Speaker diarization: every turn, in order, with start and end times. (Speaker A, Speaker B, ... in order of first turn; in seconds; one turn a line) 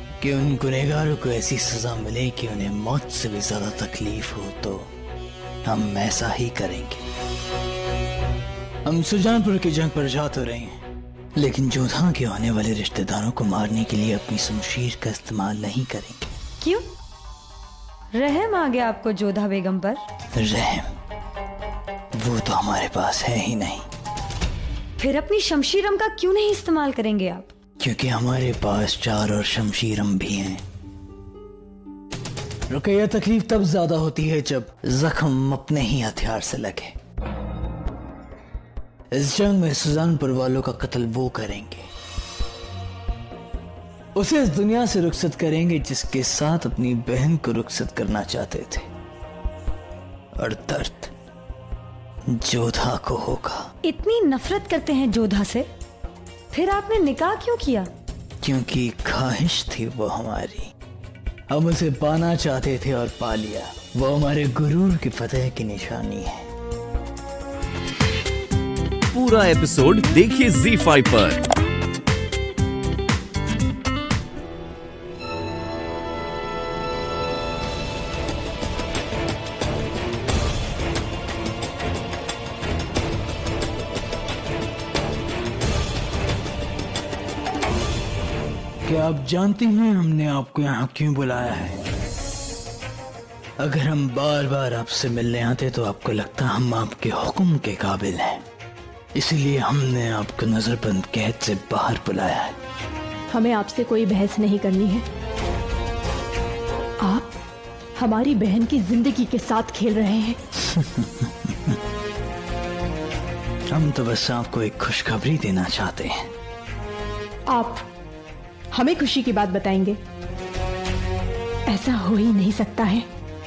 Speaker A: 0.2-4.9
Speaker A: 5.7-7.0
Speaker A: 8.8-10.8
Speaker A: 11.4-16.3
Speaker B: 18.1-20.0
Speaker A: 20.4-20.9
Speaker A: 22.2-23.9
Speaker B: 25.0-27.5
Speaker A: 27.8-30.6
Speaker A: 32.7-36.9
Speaker A: 39.1-41.9
Speaker A: 44.1-48.9
Speaker A: 50.4-51.1
Speaker A: 52.3-53.7
Speaker B: 53.8-55.7
Speaker B: 56.5-57.9
Speaker A: 58.4-60.7
Speaker A: 61.5-66.5
Speaker C: 69.1-71.4
Speaker A: 88.9-91.8
Speaker A: 93.6-98.4
Speaker A: 99.2-102.6
Speaker D: 103.3-105.0
Speaker D: 107.0-107.3
Speaker D: 108.0-110.4
Speaker A: 110.6-111.8
Speaker A: 113.7-116.3
Speaker D: 117.5-117.9
Speaker D: 118.7-120.0
Speaker D: 121.7-123.1